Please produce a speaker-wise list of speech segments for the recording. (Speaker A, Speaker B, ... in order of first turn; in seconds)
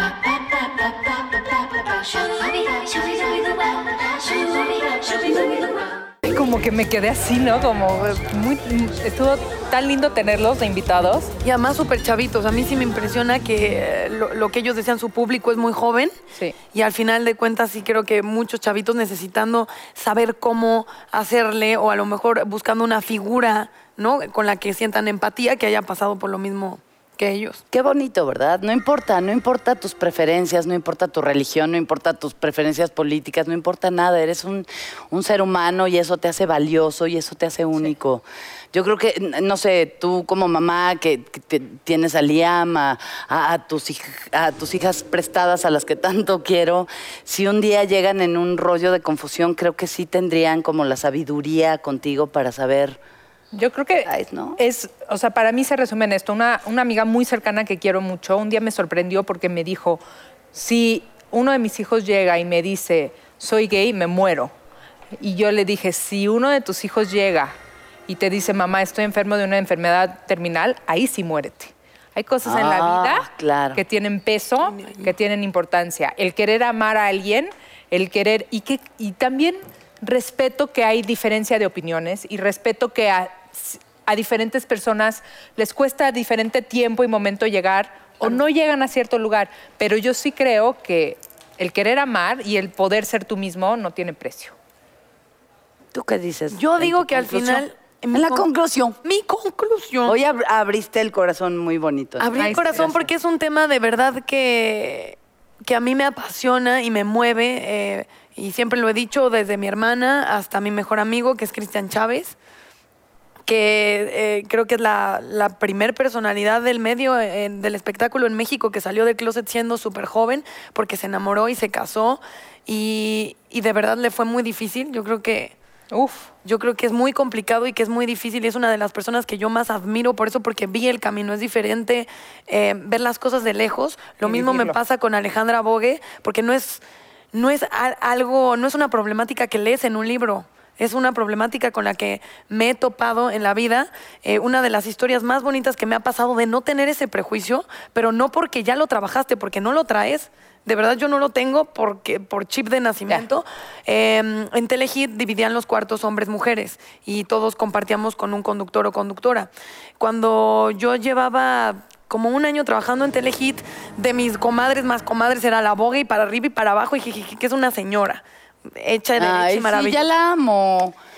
Speaker A: 6.2-11.3, 53.5-60.0, 60.5-64.5, 65.2-67.6, 68.1-94.5, 102.4-102.9, 125.9-126.3, 134.2-134.8
Speaker B: 11.4-16.1, 16.7-27.6, 74.7-75.1, 96.5-98.5, 99.0-100.2, 102.2-112.4, 113.5-125.6, 126.4-136.8, 137.3-170.1
Speaker C: 27.7-53.0, 54.0-54.6, 72.4-73.8, 95.9-99.0, 100.0-103.1, 169.2-170.9